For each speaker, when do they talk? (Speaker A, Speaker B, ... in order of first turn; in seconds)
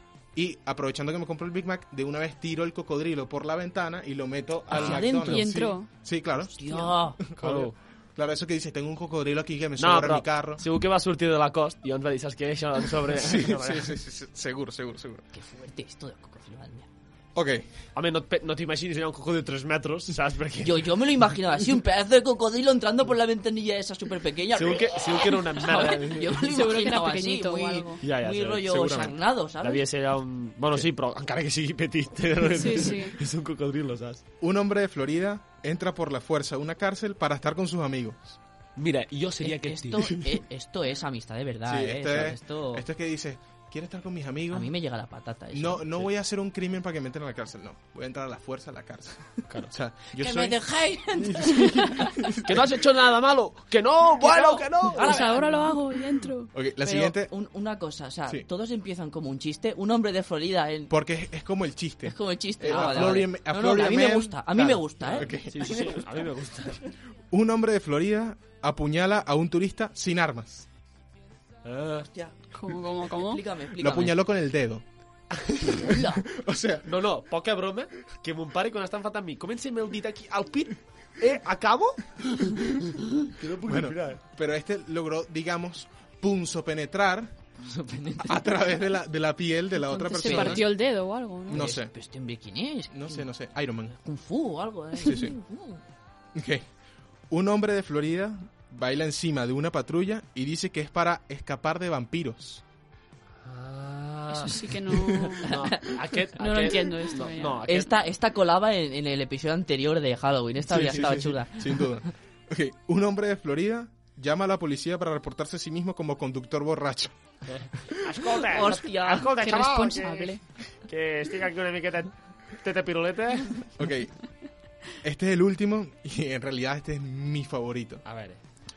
Speaker A: 0.3-10.6, 13.1-15.2, 17.4-17.7, 28.6-29.1, 34.4-38.4, 41.6-44.7, 45.5-50.6, 52.2-52.6, 56.5-57.3, 60.9-66.0, 67.3-70.7, 73.8-74.8, 75.8-76.9, 83.6-87.3, 88.2-90.7, 91.5-91.9, 92.9-94.0, 95.0-95.4, 96.3-96.7, 97.3-102.6, 110.7-117.2, 117.8-118.2, 123.8-124.2, 125.0-128.0
Speaker B: 4.5-5.1, 7.4-7.8, 9.8-13.9, 17.9-21.0, 24.6-26.4, 28.0-29.1, 29.6-34.2, 38.8-40.3, 52.5-55.3, 62.7-63.2, 65.1-66.9, 71.6-72.1, 76.8-84.2, 103.4-104.7, 105.5-107.9, 117.5-120.4, 120.9-123.7, 128.1-128.4
Speaker C: 4.7-5.8, 6.6-7.2, 15.3-16.9, 20.6-29.8, 39.4-42.9, 44.5-46.1, 50.2-52.2, 54.2-55.8, 56.8-60.9, 62.0-65.3, 73.1-74.2, 75.6-76.2, 87.6-88.5, 90.2-90.7, 91.5-93.3, 93.9-95.8, 105.5-106.0, 107.7-112.0, 118.4-119.3
Speaker D: 5.1-5.9, 26.3-28.0, 32.5-33.2, 55.0-56.5, 72.5-73.4, 89.9-91.7, 104.3-105.7, 106.4-107.7, 119.3-120.4